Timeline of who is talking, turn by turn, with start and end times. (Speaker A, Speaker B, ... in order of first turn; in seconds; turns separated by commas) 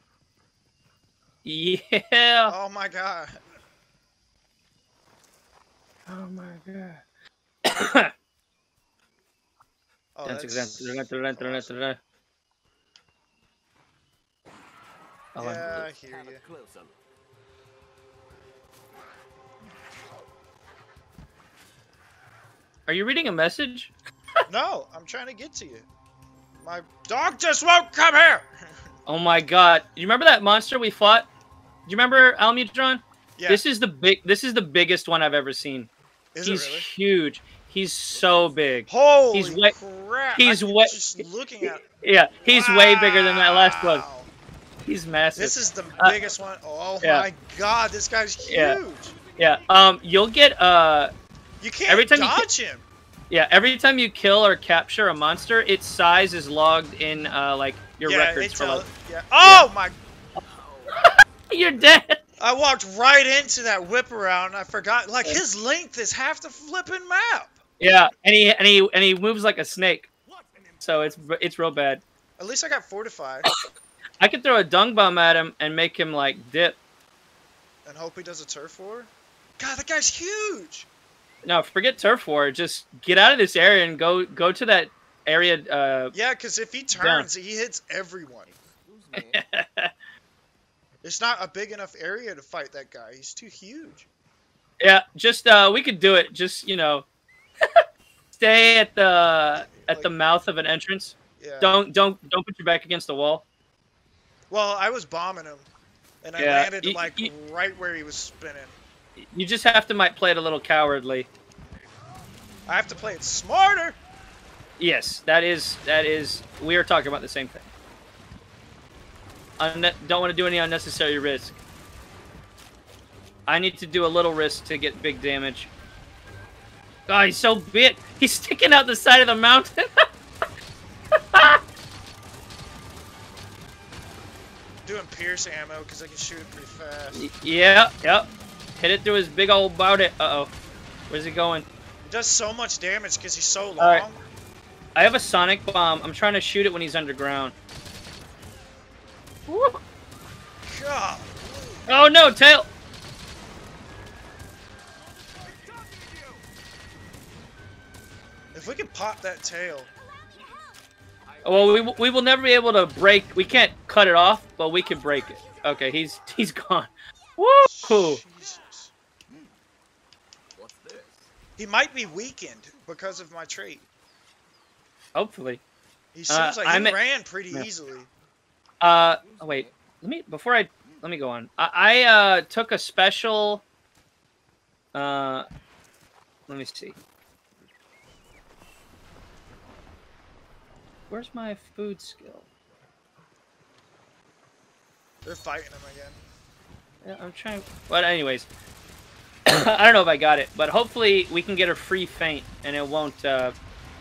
Speaker A: 1.4-2.5, Speaker B: 2.5-3.4, Speaker A: 6.1-7.0, Speaker A: 7.6-8.1, Speaker B: 10.1-11.8, Speaker A: 10.2-12.0, Speaker A: 15.3-15.9, Speaker B: 15.4-16.4, Speaker C: 15.7-17.0, Speaker A: 22.9-23.9, Speaker B: 24.5-25.9, Speaker B: 26.5-28.7, Speaker A: 29.1-31.3, Speaker A: 31.9-35.9, Speaker B: 33.4-33.6, Speaker B: 36.3-36.9, Speaker A: 36.4-39.8, Speaker C: 38.1-38.8, Speaker B: 38.9-41.8, Speaker A: 40.3-41.2, Speaker A: 42.0-44.0, Speaker B: 42.5-44.3, Speaker A: 44.8-46.2, Speaker B: 45.3-49.1, Speaker C: 45.8-46.5, Speaker A: 47.0-47.3, Speaker A: 48.4-48.8, Speaker C: 49.1-49.7, Speaker A: 49.4-51.1, Speaker B: 51.6-52.9, Speaker A: 51.9-52.5, Speaker A: 53.3-58.9, Speaker B: 58.0-59.9, Speaker A: 59.4-59.7, Speaker C: 60.4-61.1, Speaker A: 61.0-62.2, Speaker B: 62.4-67.5, Speaker A: 67.8-70.1, Speaker C: 70.2-71.4, Speaker A: 70.8-72.0, Speaker B: 72.4-73.5, Speaker A: 74.2-76.8, Speaker B: 77.8-80.9, Speaker A: 81.4-86.1, Speaker B: 86.1-88.5, Speaker A: 86.9-87.2, Speaker C: 88.4-89.4, Speaker A: 89.1-89.9, Speaker B: 91.0-94.1, Speaker A: 94.8-97.0, Speaker A: 97.6-103.4, Speaker B: 99.6-100.1, Speaker B: 101.4-101.8, Speaker B: 104.5-105.7, Speaker B: 106.2-108.8, Speaker A: 106.4-107.3, Speaker A: 109.3-111.3, Speaker B: 112.7-114.0, Speaker A: 114.8-117.7, Speaker A: 119.6-121.5, Speaker A: 123.5-125.7, Speaker A: 127.1-130.1, Speaker A: 131.2-131.6, Speaker B: 134.8-137.2, Speaker A: 137.1-140.5, Speaker A: 141.1-141.7, Speaker B: 142.0-144.2, Speaker A: 143.8-144.0, Speaker A: 144.9-147.5, Speaker A: 149.5-149.8, Speaker B: 150.7-151.8, Speaker A: 151.9-152.7, Speaker C: 155.1-156.5, Speaker B: 158.5-159.9, Speaker C: 161.3-162.3, Speaker A: 161.4-168.2, Speaker C: 164.8-166.2, Speaker B: 167.6-168.9, Speaker C: 169.3-169.5, Speaker C: 170.5-171.3, Speaker B: 171.6-173.8, Speaker A: 175.1-175.6, Speaker B: 176.1-178.1, Speaker A: 176.3-177.0, Speaker A: 178.8-183.6, Speaker C: 179.0-179.8, Speaker C: 180.8-181.1, Speaker A: 184.9-185.5, Speaker A: 186.5-186.9, Speaker A: 191.1-192.5, Speaker B: 195.2-196.2, Speaker A: 197.0-198.5, Speaker A: 199.5-203.5